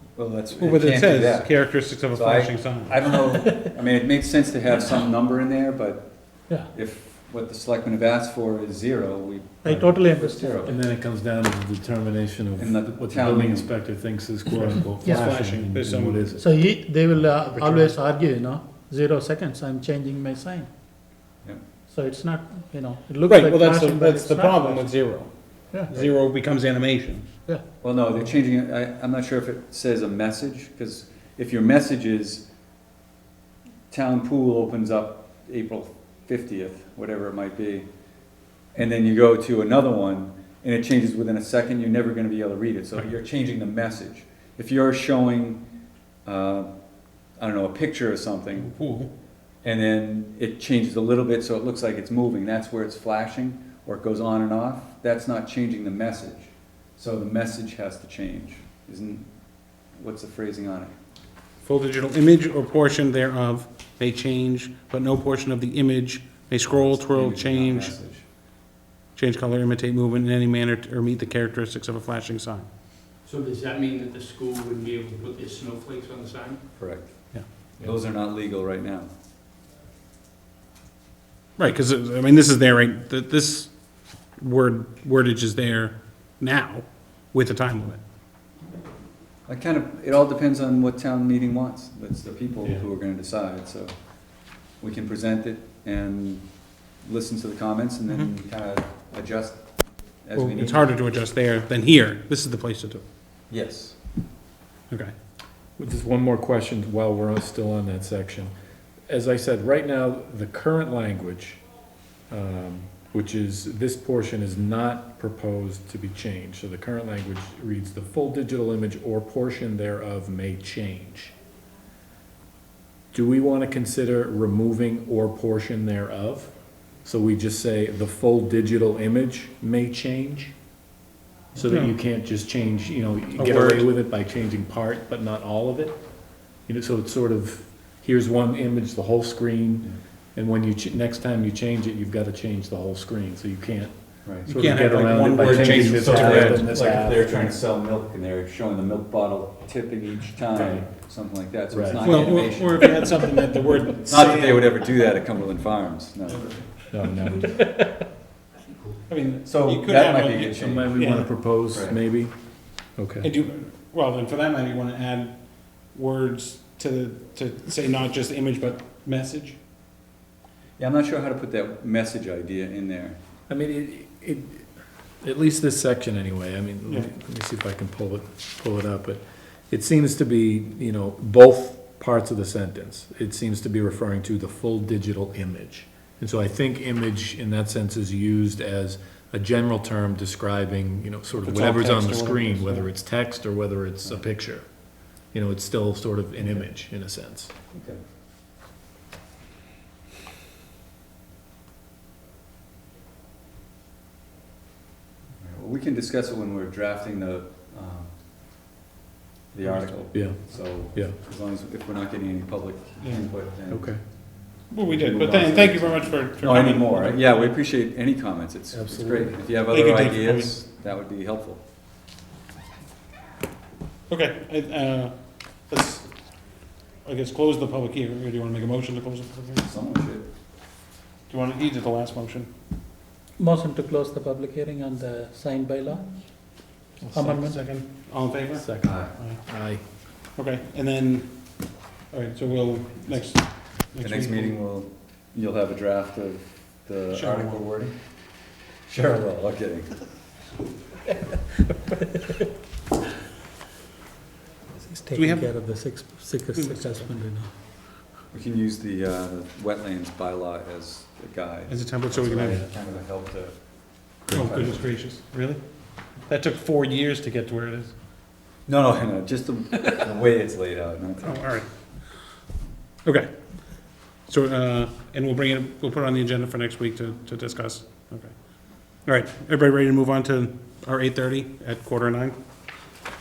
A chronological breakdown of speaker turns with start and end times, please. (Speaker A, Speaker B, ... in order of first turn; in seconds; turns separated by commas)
Speaker A: 0.1-1.5, Speaker B: 0.6-3.2, Speaker A: 2.1-6.1, Speaker A: 6.7-10.8, Speaker C: 9.6-10.7, Speaker D: 10.6-16.5, Speaker A: 12.6-13.7, Speaker C: 15.0-15.3, Speaker B: 15.0-16.2, Speaker C: 16.4-20.7, Speaker D: 17.5-17.9, Speaker C: 21.9-24.9, Speaker B: 23.3-27.3, Speaker A: 27.8-32.5, Speaker A: 33.9-37.9, Speaker A: 38.7-45.6, Speaker A: 46.2-46.7, Speaker A: 47.4-48.7, Speaker B: 48.6-49.1, Speaker A: 49.6-59.3, Speaker A: 60.0-60.9, Speaker B: 61.6-67.9, Speaker A: 66.7-68.2, Speaker B: 69.2-72.7, Speaker E: 73.2-76.6, Speaker A: 76.8-79.1, Speaker B: 81.6-83.7, Speaker B: 84.4-88.0, Speaker A: 89.5-93.9, Speaker A: 94.8-96.5, Speaker A: 97.0-99.6, Speaker A: 100.2-100.9, Speaker B: 100.3-103.0, Speaker A: 103.5-104.0, Speaker D: 105.8-108.5, Speaker D: 109.1-111.6, Speaker D: 112.3-121.3, Speaker D: 123.1-126.5, Speaker D: 127.0-130.5, Speaker D: 131.6-136.0, Speaker B: 131.7-131.9, Speaker B: 133.4-133.9, Speaker D: 136.7-143.9, Speaker A: 144.2-144.5, Speaker D: 144.4-147.6, Speaker B: 144.5-146.8, Speaker A: 145.2-153.1, Speaker D: 150.5-150.9, Speaker D: 151.7-152.2, Speaker B: 152.0-154.8, Speaker A: 154.1-156.7, Speaker D: 156.9-157.7, Speaker B: 159.1-161.3, Speaker A: 159.4-161.0, Speaker D: 160.6-162.3, Speaker A: 161.7-162.0, Speaker D: 163.0-163.3, Speaker B: 163.2-165.4, Speaker B: 165.9-169.6, Speaker A: 170.8-173.2, Speaker D: 173.5-174.7, Speaker D: 175.2-194.7, Speaker B: 191.4-192.9, Speaker D: 195.3-197.5, Speaker A: 197.7-198.0, Speaker A: 205.4-208.1, Speaker A: 209.5-213.8, Speaker D: 210.1-211.2, Speaker D: 213.7-214.0, Speaker B: 214.7-217.6, Speaker A: 214.8-221.6, Speaker D: 218.7-219.4, Speaker B: 219.7-220.6, Speaker B: 224.1-225.2, Speaker B: 225.7-226.1, Speaker B: 227.1-229.7, Speaker A: 229.6-230.3, Speaker B: 231.3-232.5, Speaker C: 233.4-236.1, Speaker D: 237.0-237.4, Speaker C: 237.1-237.6, Speaker B: 237.4-238.7, Speaker D: 238.6-239.8, Speaker A: 238.8-239.1, Speaker B: 240.4-241.3, Speaker B: 242.1-244.6, Speaker A: 244.0-247.9, Speaker B: 247.1-247.6, Speaker A: 248.9-249.9, Speaker C: 254.8-257.5, Speaker B: 255.1-255.5, Speaker A: 258.3-263.6, Speaker B: 261.7-262.7, Speaker D: 264.3-264.8, Speaker A: 264.3-264.7, Speaker B: 264.3-265.6, Speaker B: 266.3-267.9, Speaker A: 268.7-271.4, Speaker B: 271.2-271.7, Speaker B: 273.1-273.3, Speaker B: 274.3-278.3, Speaker B: 279.1-282.4